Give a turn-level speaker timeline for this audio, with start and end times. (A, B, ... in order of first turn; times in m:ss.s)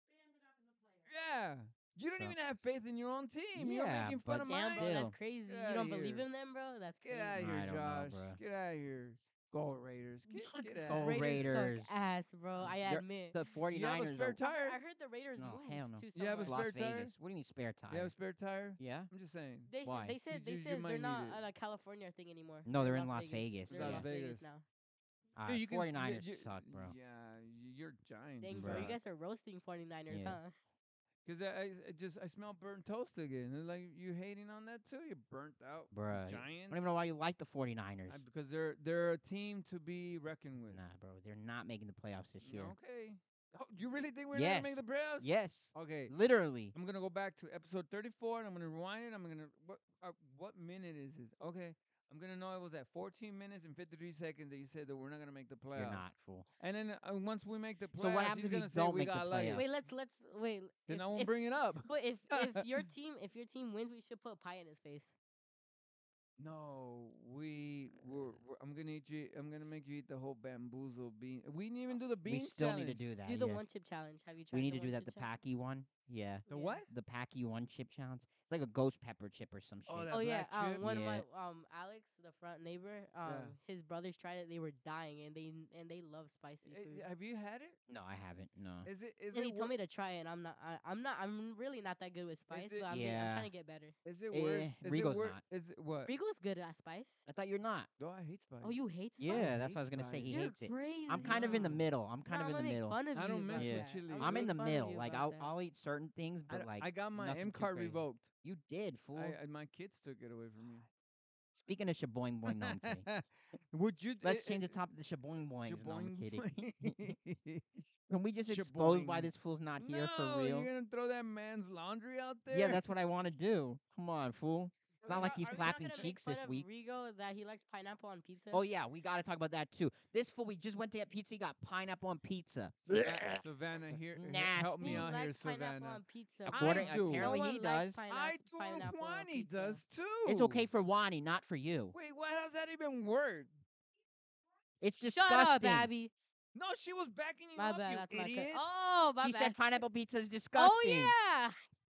0:01.1-0:06.3 A
0:03.6-0:05.2 B
0:04.5-0:07.4 C
0:07.0-0:11.5 A
0:07.4-0:08.4 B
0:10.3-0:13.4 C
0:10.9-0:11.9 B
0:12.6-0:14.4 B
0:13.7-0:14.8 A
0:14.4-0:16.6 C
0:15.4-0:18.1 B
0:16.2-0:17.1 A
0:17.9-0:19.7 A
0:18.8-0:19.1 B
0:19.7-0:24.6 C
0:19.8-0:20.2 B
0:20.3-0:21.4 A
0:22.6-0:24.1 B
0:23.7-0:24.5 A
0:25.4-0:27.0 B
0:25.5-0:29.0 A
0:28.4-0:30.5 C
0:28.5-0:29.0 B
0:30.1-0:30.4 B
0:31.2-0:36.9 A
0:35.9-0:38.2 B
0:38.1-0:40.8 A
0:40.7-0:42.8 B
0:42.4-0:46.1 A
0:44.3-0:46.7 B
0:46.7-0:59.7 A
0:55.8-0:56.5 B
0:58.0-0:59.6 B
0:59.5-1:01.3 C
1:00.9-1:02.9 A
1:01.8-1:05.1 C
1:06.4-1:13.1 A
1:08.0-1:08.4 B
1:12.3-1:13.6 B
1:13.2-1:15.3 C
1:14.5-1:20.2 B
1:16.5-1:16.8 C
1:16.5-1:16.9 A
1:19.9-1:21.0 A
1:20.1-1:27.1 C
1:20.8-1:21.3 B
1:23.2-1:23.6 A
1:26.6-1:27.8 A
1:27.9-1:28.9 B
1:28.8-1:29.7 A
1:29.3-1:33.9 C
1:32.5-1:32.9 A
1:32.9-1:33.5 B
1:34.0-1:36.1 A
1:34.3-1:35.4 B
1:36.1-1:37.2 C
1:37.3-1:37.9 B
1:38.0-1:40.5 A
1:38.6-1:39.6 C
1:39.2-1:43.0 B
1:40.3-1:45.5 C
1:41.1-1:41.8 A
1:43.1-1:44.5 A
1:43.6-1:49.4 B
1:46.5-1:48.3 A
1:49.1-1:50.9 A
1:51.6-1:53.1 B
1:52.5-1:54.8 A
1:54.2-1:57.2 B
1:55.6-1:57.9 A
1:58.1-2:00.7 B
1:58.5-2:02.8 A
2:02.5-2:06.7 B
2:05.0-2:08.7 C
2:08.5-2:13.4 B
2:12.9-2:17.3 A
2:14.2-2:15.1 B
2:14.8-2:19.8 C
2:16.5-2:18.0 B
2:18.1-2:20.7 A
2:20.3-2:22.0 B
2:21.9-2:23.5 A
2:24.8-2:25.9 B
2:25.0-2:26.1 C
2:26.6-2:28.7 A
2:27.6-2:29.8 C
2:29.2-2:31.2 B
2:30.6-2:31.6 C